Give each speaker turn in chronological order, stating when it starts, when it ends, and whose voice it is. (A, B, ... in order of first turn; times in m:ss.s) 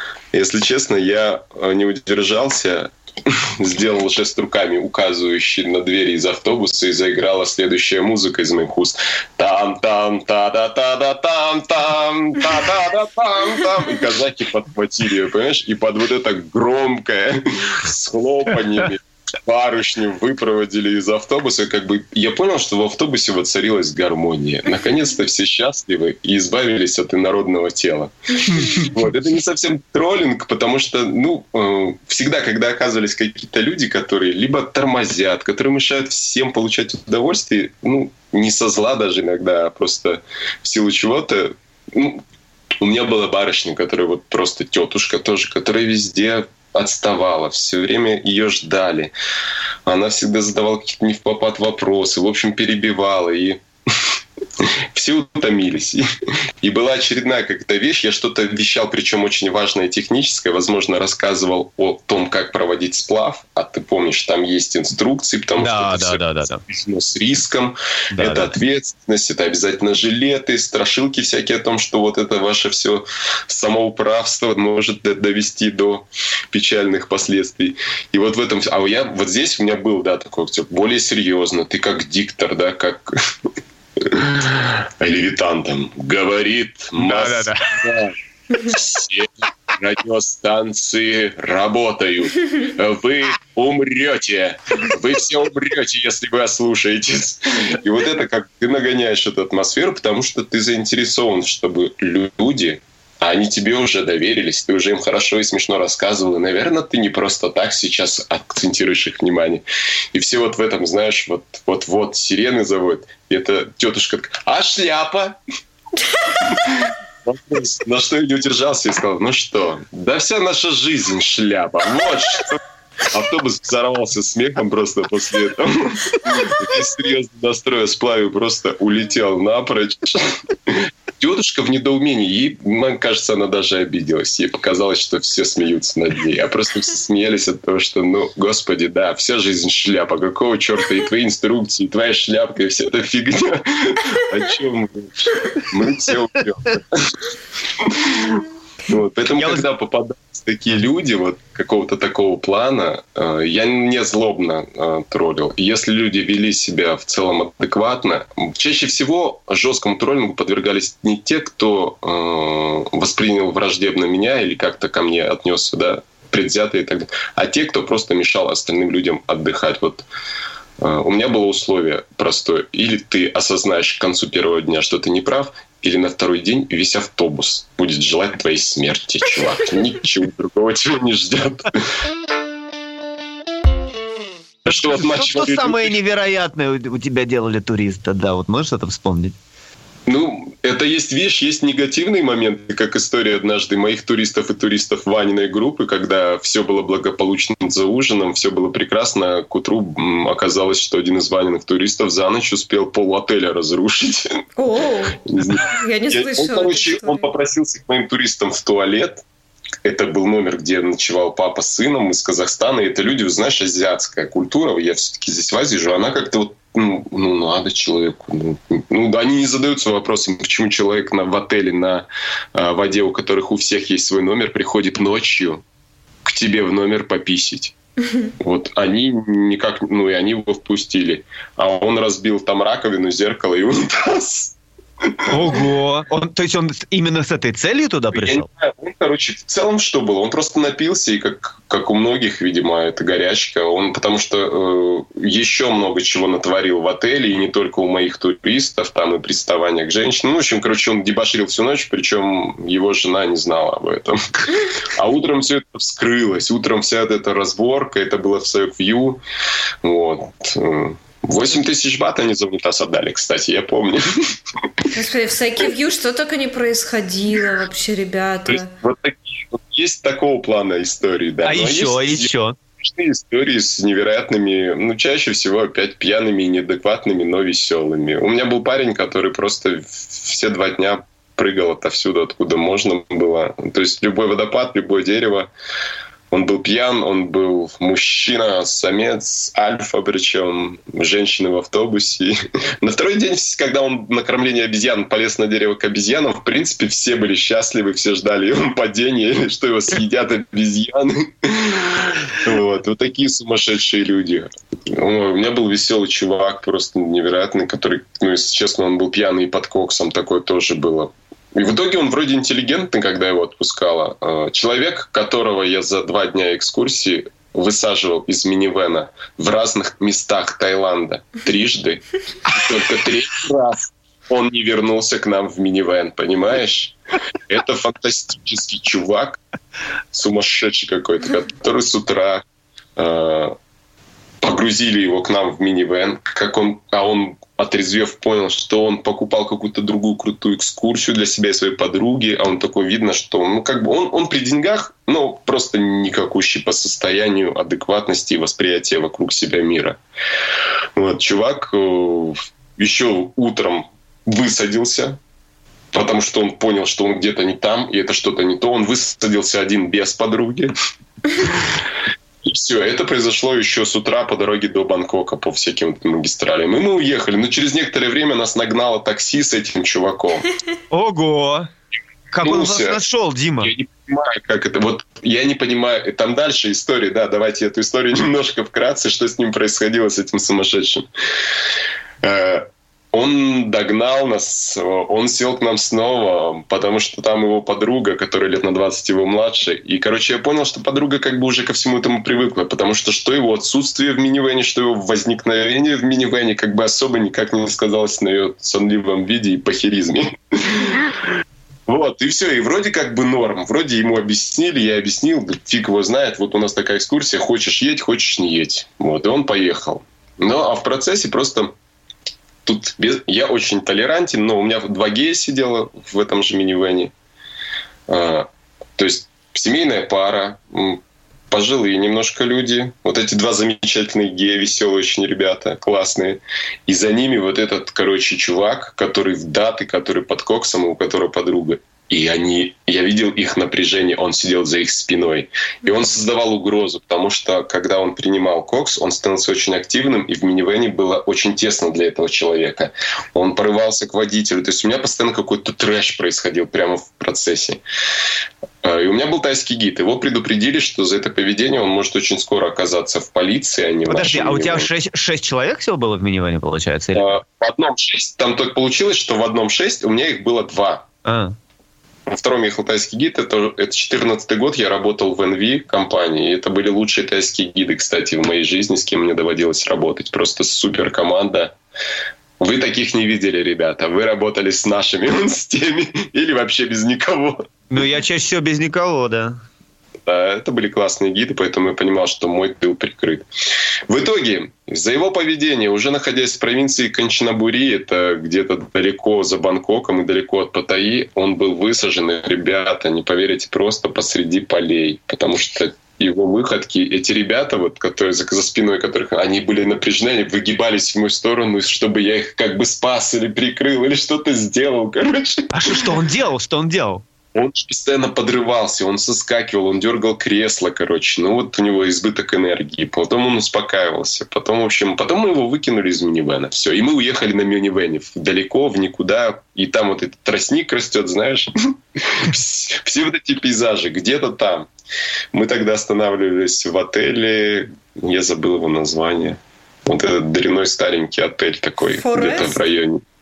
0:00.3-0:42.2 A
0:28.5-0:28.9 B
0:42.8-0:49.1 A
0:49.9-0:53.6 A
0:54.6-0:56.0 A
0:56.6-1:23.1 A
1:05.6-1:06.6 B
1:08.1-1:08.5 B
1:24.0-1:55.4 A
1:27.0-1:27.8 B
1:56.4-2:27.3 A
2:27.8-2:50.1 A
2:29.4-2:29.7 B
2:50.8-3:01.9 A
3:04.7-3:06.0 A
3:04.7-3:09.4 B
3:10.1-3:24.4 A
3:24.6-3:27.3 C
3:25.3-3:29.2 A
3:29.8-3:45.6 A
3:46.2-3:47.7 A
3:48.4-3:55.6 A
3:55.3-3:58.5 B
3:58.1-4:19.2 A
4:19.8-4:24.2 A
4:24.9-4:28.7 C
4:28.5-4:32.3 A
4:31.4-4:32.6 B
4:32.8-4:45.5 A
4:46.3-5:29.4 A
5:30.1-5:32.4 A
5:33.0-5:33.6 A
5:34.4-5:50.0 A
5:51.0-5:55.2 A
5:55.9-6:00.7 A
6:01.4-6:01.8 A
6:02.4-6:10.5 A
6:10.9-6:11.7 B
6:12.3-6:13.7 B
6:12.4-6:13.0 A
6:13.6-6:21.1 A
6:22.2-6:41.3 A
6:41.9-6:51.7 A
6:52.6-6:57.1 A
6:58.1-7:27.8 A
7:28.8-7:34.9 A
7:34.1-7:37.3 B
7:37.2-7:41.1 A
7:41.2-7:41.6 B
7:42.3-7:51.8 A
7:52.6-7:57.6 A
7:57.9-7:59.6 B
8:00.3-8:03.5 A
8:04.1-8:26.0 A
8:25.7-8:27.2 B
8:27.6-8:44.9 A
8:45.5-8:53.2 A
8:52.1-8:52.8 C